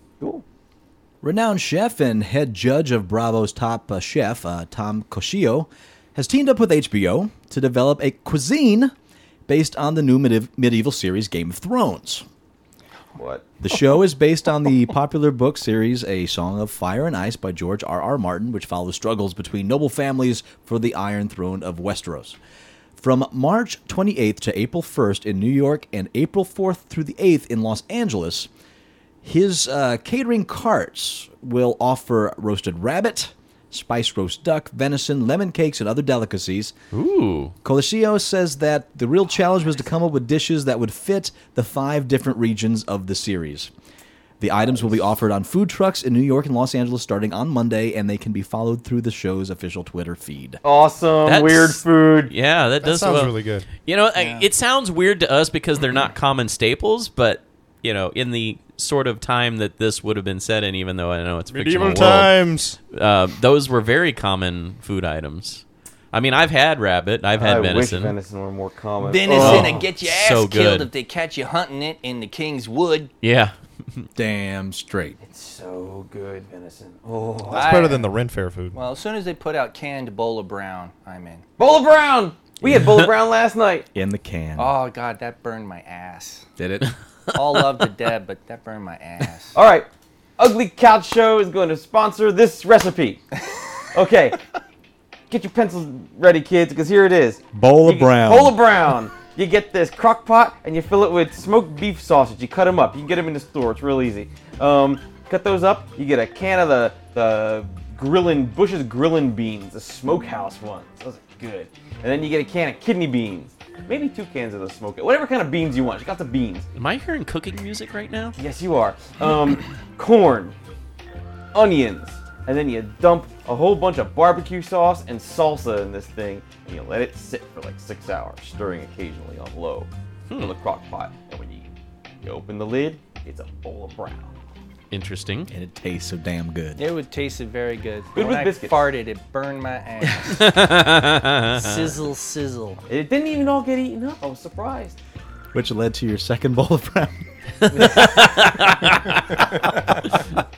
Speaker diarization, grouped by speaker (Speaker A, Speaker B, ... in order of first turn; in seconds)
Speaker A: 1.2-8.9, 9.5-12.2, 13.6-22.4, 23.0-28.5, 29.2-36.7, 37.6-43.7, 44.4-50.6, 74.2-75.2, 82.6-82.9, 83.9-84.7, 86.6-86.9, 97.5-98.5, 135.5-136.8, 145.5-147.2
Speaker B: 13.1-13.5, 50.6-52.3, 67.3-69.8, 75.2-77.8, 81.6-83.9, 89.5-93.2, 93.9-94.4, 95.3-116.7, 118.4-120.5, 121.5-131.7, 132.2-134.3, 138.1-138.8, 142.9-144.9
Speaker C: 36.9-37.5, 51.2-62.4, 62.9-68.1, 69.3-70.9, 73.2-74.1, 116.8-118.3, 134.9-135.5, 140.3-141.9, 147.7-149.1
Speaker D: 52.8-53.7, 61.5-62.8, 77.5-78.8
Speaker E: 54.1-54.5, 69.0-73.1, 77.5-78.1, 78.7-81.4, 84.6-86.5, 87.3-89.5, 136.8-140.5, 141.6-142.8